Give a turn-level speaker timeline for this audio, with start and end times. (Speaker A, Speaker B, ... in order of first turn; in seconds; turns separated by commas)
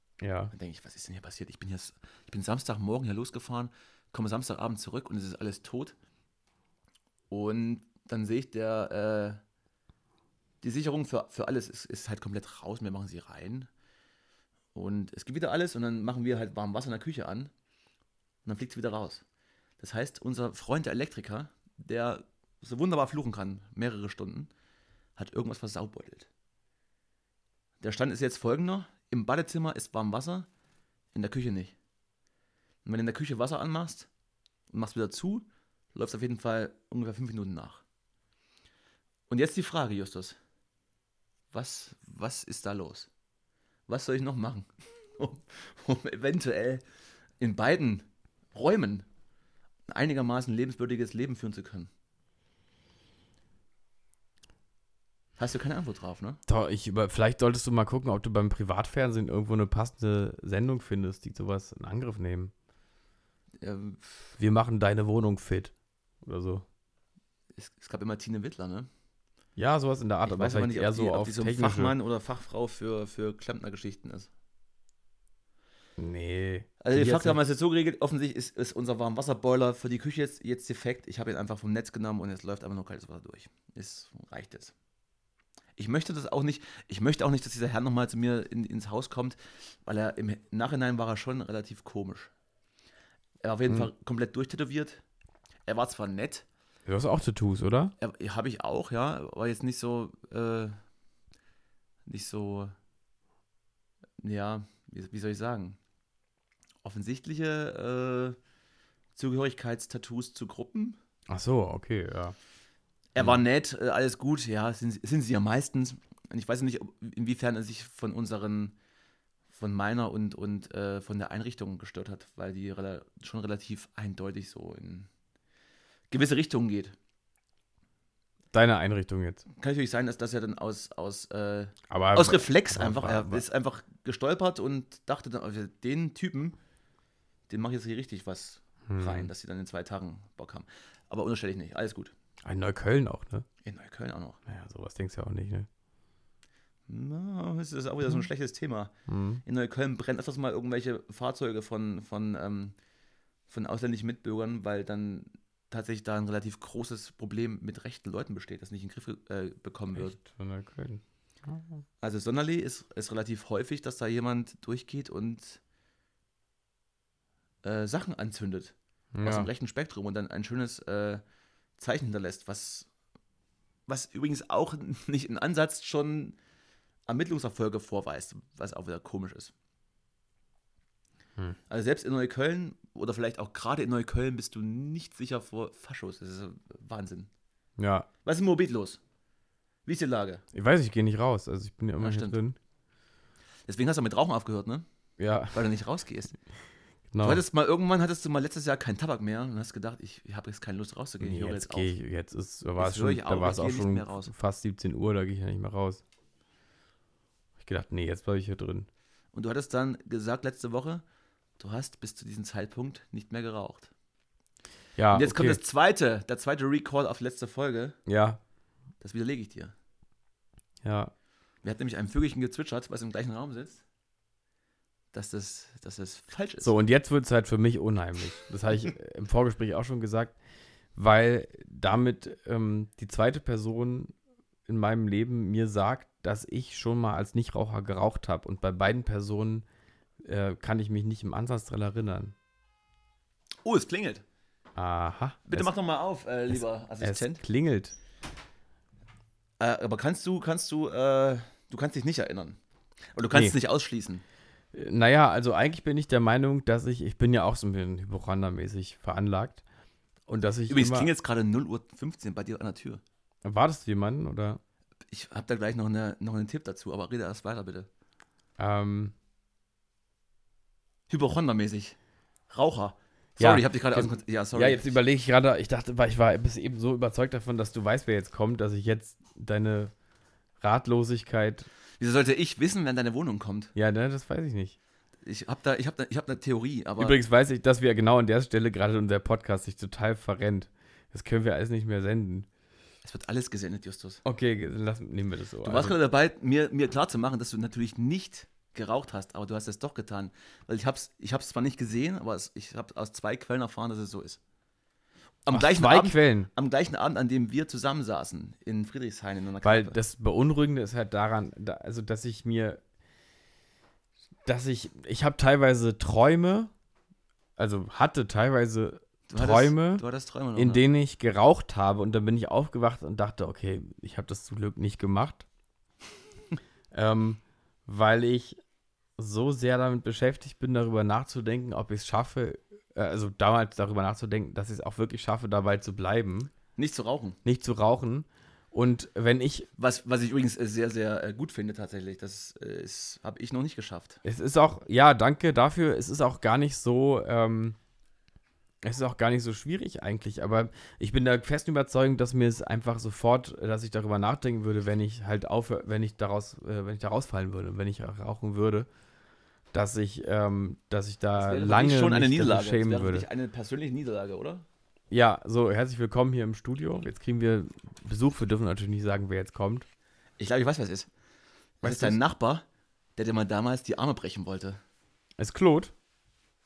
Speaker A: 0.2-0.5, Speaker B: 0.5-6.0, Speaker B: 7.3-9.4, Speaker B: 10.6-13.7, Speaker B: 14.7-17.5, Speaker B: 18.4-19.2, Speaker B: 19.8-24.5, Speaker B: 25.2-26.3, Speaker B: 27.8-30.5, Speaker B: 31.1-31.7, Speaker B: 32.8-34.1, Speaker B: 34.7-37.8, Speaker B: 39.3-40.4, Speaker B: 41.5-43.1, Speaker B: 43.9-46.8, Speaker B: 47.4-49.0, Speaker B: 49.9-51.9, Speaker B: 55.4-56.4, Speaker A: 56.5-62.5, Speaker B: 63.6-64.3, Speaker A: 64.4-66.6, Speaker B: 67.6-68.9, Speaker A: 69.5-71.9, Speaker B: 70.2-74.3, Speaker A: 76.0-77.4, Speaker B: 76.8-84.7, Speaker B: 85.8-92.3, Speaker B: 93.4-95.0, Speaker B: 95.7-96.5, Speaker A: 96.8-97.9, Speaker B: 98.0-100.8, Speaker B: 102.1-102.7, Speaker B: 104.2-105.8, Speaker B: 106.8-108.4, Speaker B: 109.1-111.0, Speaker A: 111.3-112.3, Speaker B: 113.1-118.8, Speaker B: 119.5-125.1, Speaker B: 126.1-126.9, Speaker A: 128.5-129.4, Speaker B: 129.6-136.6, Speaker A: 131.9-133.4, Speaker B: 137.5-142.1, Speaker A: 138.9-139.3, Speaker A: 142.4-143.4, Speaker B: 143.6-144.4, Speaker A: 144.5-145.7, Speaker B: 146.9-148.9, Speaker A: 149.1-149.4, Speaker B: 149.4-152.7, Speaker B: 153.5-160.2, Speaker A: 159.9-161.8, Speaker B: 162.0-165.6, Speaker B: 167.6-171.2, Speaker A: 169.1-169.5, Speaker B: 171.8-172.9, Speaker B: 173.9-176.4, Speaker B: 177.1-179.5, Speaker B: 181.7-187.3, Speaker A: 187.8-188.1, Speaker B: 188.2-189.0, Speaker B: 189.8-190.4, Speaker A: 190.5-192.6, Speaker B: 192.0-192.4, Speaker B: 193.7-194.8, Speaker A: 195.2-195.6, Speaker B: 195.5-196.3, Speaker A: 197.1-197.4, Speaker B: 197.2-201.9, Speaker A: 201.2-206.0, Speaker B: 202.8-204.3, Speaker A: 207.6-208.9, Speaker B: 209.3-211.0, Speaker B: 211.6-213.9, Speaker A: 215.0-215.6, Speaker B: 215.1-218.0, Speaker A: 218.1-218.4, Speaker B: 219.0-219.7, Speaker A: 220.8-221.1, Speaker B: 221.6-223.8, Speaker B: 225.1-226.7, Speaker A: 226.6-230.3, Speaker A: 230.9-234.1, Speaker A: 234.7-239.6, Speaker A: 240.2-242.3, Speaker B: 243.6-244.2, Speaker A: 244.8-245.7, Speaker B: 245.5-247.4, Speaker A: 246.5-247.9, Speaker B: 249.6-252.6, Speaker B: 253.1-254.2, Speaker A: 254.7-259.6, Speaker A: 260.3-261.1, Speaker B: 260.7-263.0, Speaker A: 263.4-264.6, Speaker B: 265.1-267.9, Speaker A: 268.6-269.1, Speaker B: 271.1-271.9, Speaker B: 272.5-275.0, Speaker A: 273.4-279.9, Speaker A: 280.6-281.7, Speaker B: 282.0-283.7, Speaker A: 283.7-284.8, Speaker B: 285.2-287.1, Speaker A: 287.0-292.5, Speaker B: 293.0-294.2, Speaker A: 294.2-295.9, Speaker B: 295.6-304.4, Speaker B: 305.4-310.0, Speaker A: 305.5-306.5, Speaker A: 309.6-312.8, Speaker A: 314.4-316.7, Speaker A: 317.6-320.0, Speaker B: 319.3-320.8, Speaker A: 320.6-325.5, Speaker A: 326.9-328.6, Speaker A: 329.2-336.5, Speaker B: 336.8-337.4, Speaker A: 337.4-339.7, Speaker B: 339.8-344.2, Speaker A: 344.2-347.8, Speaker A: 348.8-358.9, Speaker A: 359.7-363.3, Speaker B: 361.4-364.6, Speaker A: 365.1-369.9, Speaker B: 370.4-371.1, Speaker A: 371.8-372.2, Speaker B: 371.8-372.6, Speaker B: 373.2-374.8, Speaker A: 375.4-375.9